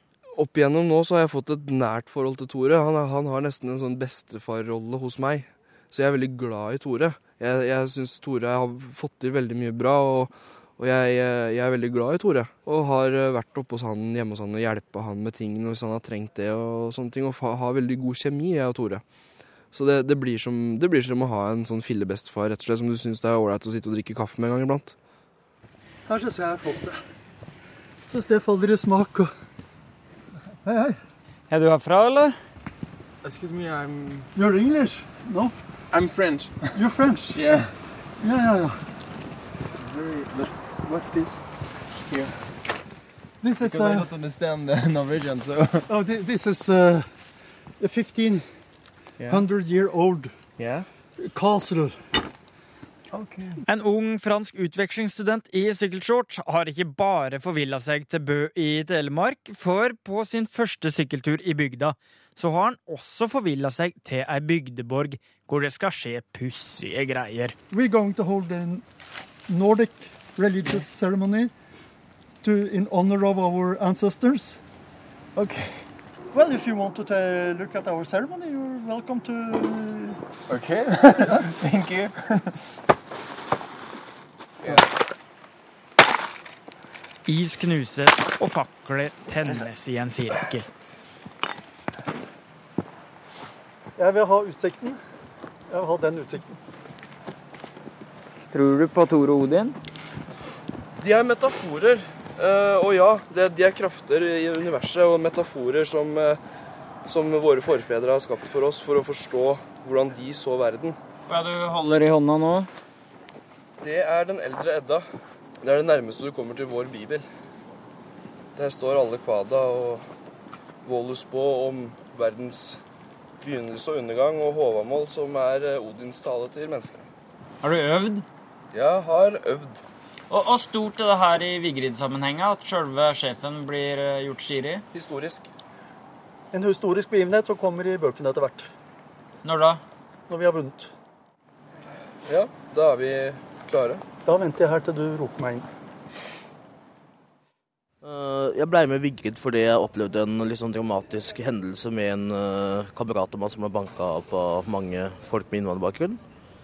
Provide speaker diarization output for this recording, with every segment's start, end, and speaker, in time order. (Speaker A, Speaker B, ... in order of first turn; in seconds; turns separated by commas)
Speaker A: 0.3-19.0, Speaker A: 19.7-25.0, Speaker B: 26.1-27.0, Speaker B: 28.1-29.3, Speaker B: 30.6-31.0, Speaker C: 31.5-32.4, Speaker D: 33.2-34.3, Speaker B: 34.4-35.5, Speaker D: 35.9-36.7, Speaker B: 36.7-37.4, Speaker D: 37.3-37.7, Speaker B: 38.2-38.8, Speaker D: 39.8-42.4, Speaker B: 43.4-44.1, Speaker D: 43.6-45.9, Speaker B: 45.9-47.1, Speaker B: 47.8-48.5, Speaker D: 49.2-49.5, Speaker B: 49.3-50.4, Speaker D: 50.6-50.9, Speaker B: 51.2-52.0, Speaker D: 53.1-53.6, Speaker E: 53.6-67.6, Speaker B: 67.7-68.8, Speaker B: 69.5-71.5, Speaker B: 72.4-74.6, Speaker D: 75.3-75.9, Speaker B: 76.3-80.2, Speaker D: 80.5-82.6, Speaker D: 84.6-84.9, Speaker E: 87.3-90.7, Speaker B: 94.0-95.0, Speaker B: 95.7-96.6, Speaker C: 98.5-99.8, Speaker A: 101.0-106.4, Speaker A: 107.1-111.0, Speaker C: 111.3-112.7, Speaker A: 113.8-115.1, Speaker A: 115.6-117.3, Speaker A: 118.6-120.0, Speaker A: 120.8-122.8, Speaker A: 123.4-127.0, Speaker C: 127.6-128.2, Speaker A: 128.7-129.8, Speaker C: 130.3-134.8, Speaker A: 134.9-135.5, Speaker B: 136.5-138.7, Speaker C: 139.4-139.8, Speaker B: 140.3-140.9, Speaker A: 142.3-144.0, Speaker B: 144.2-145.7, Speaker F: 148.0-156.2